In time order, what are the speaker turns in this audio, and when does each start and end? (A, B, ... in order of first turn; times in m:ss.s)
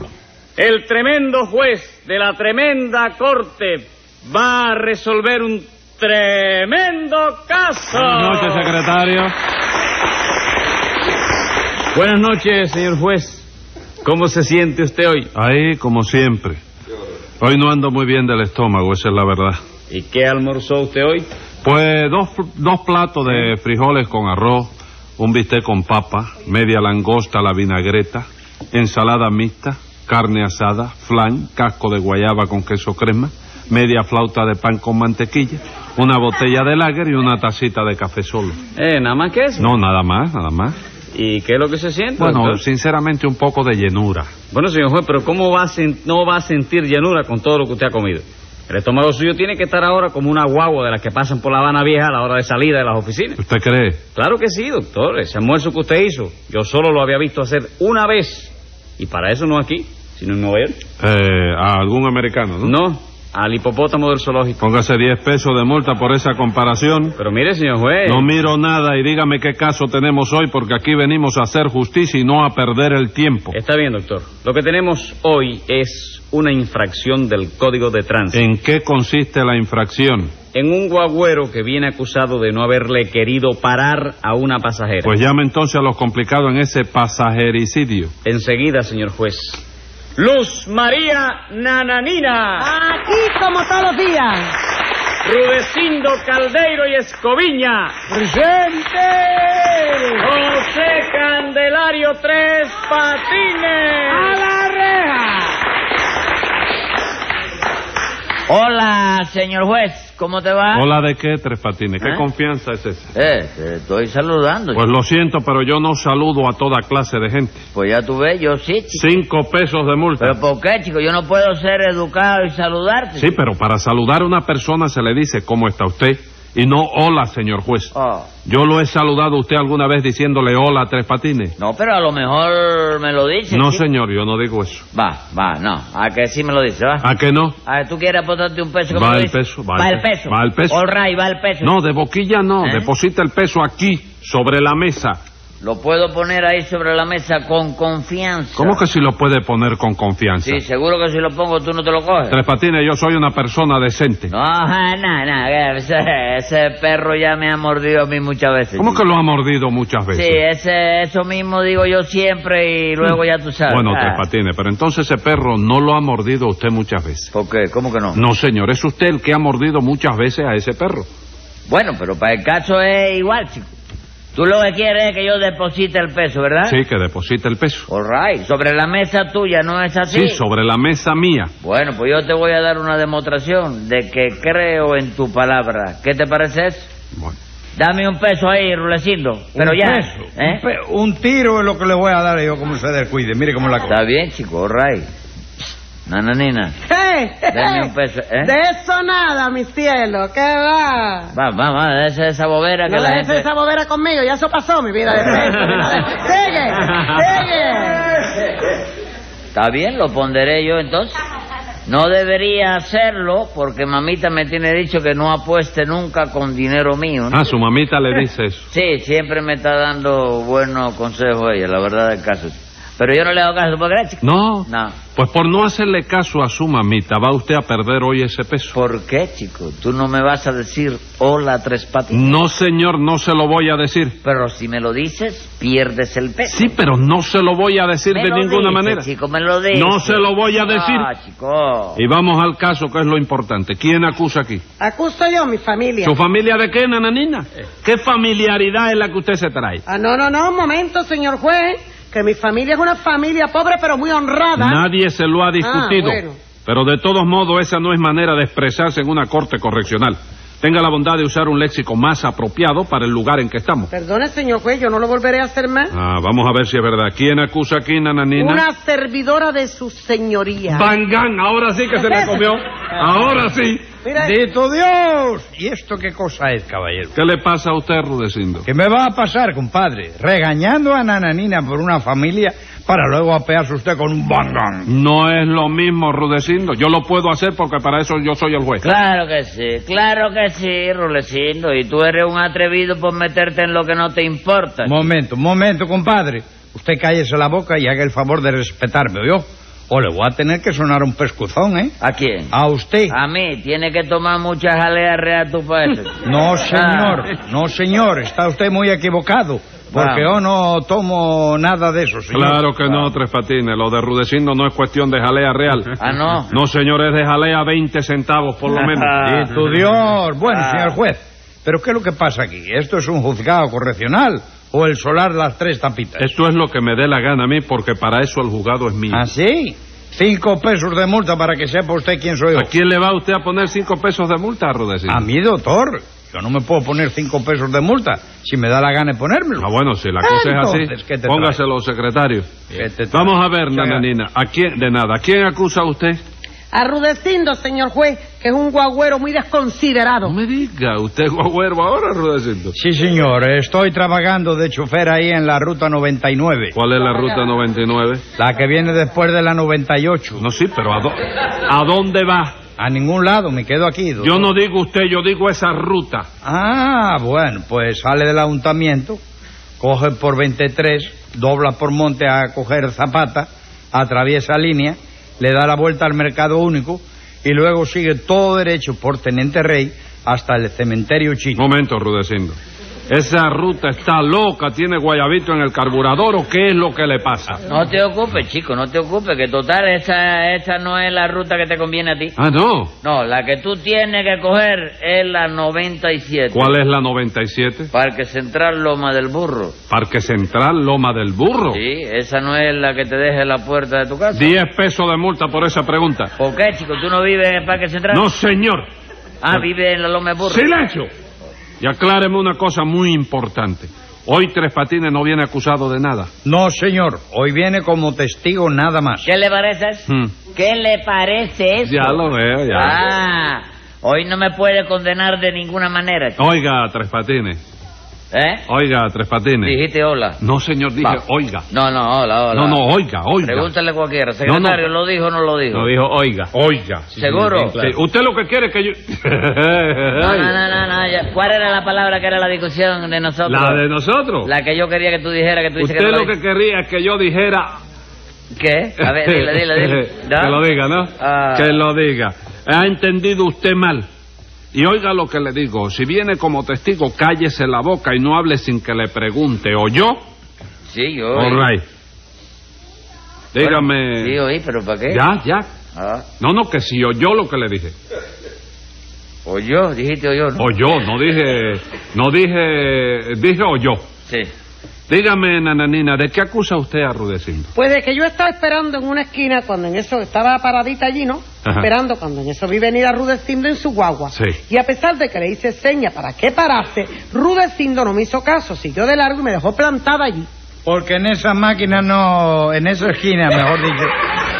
0:00.6-0:08.7 A
0:07.9-0:09.3 B
0:11.9-0:13.5 A
0:14.0-0:15.3 A
0:15.3-0:16.6 B
0:17.4-0:19.6 B
0:19.9-0:21.3 A
0:21.6-0:38.6 B
0:38.8-0:39.8 A
0:39.6-0:40.7 B
0:41.1-0:42.6 A
0:42.2-0:44.4 B
0:44.5-0:53.4 A
0:53.4-0:54.0 B
0:54.1-1:00.8 A
1:01.0-1:02.8 B
1:02.6-1:04.6 A
1:04.6-1:07.2 B
1:07.2-1:08.3 A
1:08.0-1:13.6 B
1:13.5-1:18.4 A
1:18.3-1:20.4 B
1:20.5-1:25.1 A
1:25.0-1:28.1 B
1:28.2-1:29.6 A
1:30.2-1:32.7 A
1:32.6-1:34.5 C
1:35.3-1:38.1 A
1:38.1-1:39.0 C
1:39.4-1:44.3 A
1:44.1-1:44.5 C
1:44.9-1:45.3 A
1:48.5-1:50.8 D
1:50.7-1:53.1 B
1:53.1-1:54.8 D
1:54.7-1:57.6 B
1:57.7-1:59.1 D
1:58.9-2:00.4 B
2:00.2-2:03.3 D
2:03.2-2:07.9 B
2:07.9-2:08.3 D
2:08.4-2:11.6 B
2:11.6-2:13.8 D
2:13.5-2:14.8 B
2:14.9-2:17.0 D
2:17.0-2:17.6 B
2:17.6-2:21.7 D
2:18.9-2:20.8 B
2:21.6-2:25.2 B
2:22.6-2:22.9 D
2:25.6-2:28.8 D
2:28.6-2:30.6 B
2:30.4-2:32.4 D
2:32.3-2:34.3 B
2:34.3-2:39.0 D
2:38.8-2:40.4 B
2:40.1-2:44.2 D
2:43.7-2:47.3 B
2:47.3-2:48.2 D
2:48.1-2:51.1 B
2:51.7-2:53.7 D
2:54.3-2:56.8 D
2:56.6-2:57.9 B
2:57.9-3:00.4 D
3:00.1-3:01.5 B
3:01.6-3:06.9 D
3:07.8-3:10.6 D
3:09.6-3:13.9 E
3:13.9-3:15.0 D
3:16.1-3:16.7 D
3:16.9-3:17.9 C
3:17.5-3:18.5 D
3:18.4-3:21.3 C
3:21.3-3:23.5 D
3:22.9-3:28.1 C
3:29.5-3:31.2 D
3:31.8-3:37.4 D
3:37.3-3:38.6 B
3:38.7-3:45.0 D
3:44.2-3:48.8 B
3:48.7-3:52.4 D
3:52.1-3:54.2 B
3:54.2-3:56.7 D
3:56.5-3:59.1 B
3:58.1-4:02.0 D
3:59.7-4:01.1 B
4:02.0-4:04.6 B
4:04.8-4:06.1 C
4:06.0-4:09.8 B
4:09.9-4:14.8 C
4:14.6-4:23.9 B
4:15.6-4:16.4 C
4:23.9-4:25.9 C
4:25.9-4:28.6 B
4:28.3-4:30.9 C
4:30.7-4:33.8 B
4:31.9-4:32.5 C
4:34.0-4:34.3 C
4:34.2-4:37.1 E
4:37.1-4:38.7 B
4:38.6-4:44.9 E
4:44.8-4:48.8 B
4:48.8-4:55.0 D
4:54.8-5:01.9 E
5:02.0-5:02.5 D
5:02.5-5:03.2 E
5:03.1-5:07.2 D
5:06.2-5:13.1 E
5:09.9-5:10.3 D
5:12.3-5:15.9 B
5:16.0-5:16.5 D
5:16.5-5:19.1 B
5:18.7-5:19.5 D
5:19.2-5:26.3 E
5:20.4-5:21.0 D
5:26.2-5:29.2 B
5:29.1-5:32.7 E
5:32.5-5:35.2 B
5:35.1-5:39.7 E
5:39.6-5:42.6 B
5:40.2-5:41.6 E
5:42.7-5:44.0 E
5:43.1-5:46.2 B
5:46.7-5:50.4 C
5:50.2-5:52.7 B
5:52.7-5:56.8 E
5:56.7-5:58.2 B
5:58.4-6:00.4 E
6:00.4-6:02.5 B
6:02.8-6:04.5 E
6:04.2-6:06.2 B
6:06.4-6:09.2 E
6:09.8-6:21.6 E
6:21.6-6:22.6 B
6:23.1-6:27.6 B
6:27.6-6:32.3 D
6:32.4-6:32.9 B
6:33.0-6:36.7 D
6:36.5-6:37.9 B
6:37.9-6:39.7 D
6:39.9-6:41.8 B
6:41.7-6:44.5 D
6:44.3-6:46.3 B
6:46.4-6:48.3 D
6:48.1-6:48.9 B
6:49.4-6:50.7 D
6:50.4-6:51.1 B
6:51.8-6:56.3 B
6:56.4-6:59.3 E
6:59.2-7:02.2 D
7:00.1-7:00.3 B
7:01.8-7:03.0 B
7:02.7-7:06.4 D
7:06.4-7:07.6 B
7:08.3-7:08.6 D
7:08.7-7:09.8 B
7:09.6-7:10.4 D
7:10.4-7:11.6 B
7:11.0-7:12.8 D
7:12.5-7:13.7 B
7:13.4-7:15.9 D
7:14.4-7:14.8 B
7:15.7-7:16.5 A
7:16.5-7:20.6 B
7:17.1-7:17.8 D
7:17.2-7:18.0 A
7:20.2-7:23.8 D
7:23.4-7:24.5 B
7:24.4-7:26.3 D
7:25.8-7:27.7 B
7:28.6-7:30.6 D
7:29.0-7:34.0 B
7:31.2-7:31.8 D
7:34.7-7:40.2 B
7:40.9-7:41.6 D
7:41.3-7:41.8 B
7:43.5-7:44.4 B
7:43.6-7:45.2 D
7:45.1-7:45.7 B
7:45.9-7:46.2 D
7:46.4-7:47.9 B
7:49.4-7:50.7 D
7:50.6-7:54.0 B
7:55.1-7:57.7 B
7:57.7-8:10.5 C
8:01.6-8:01.9 B
8:04.3-8:04.6 B
8:10.8-8:14.1 E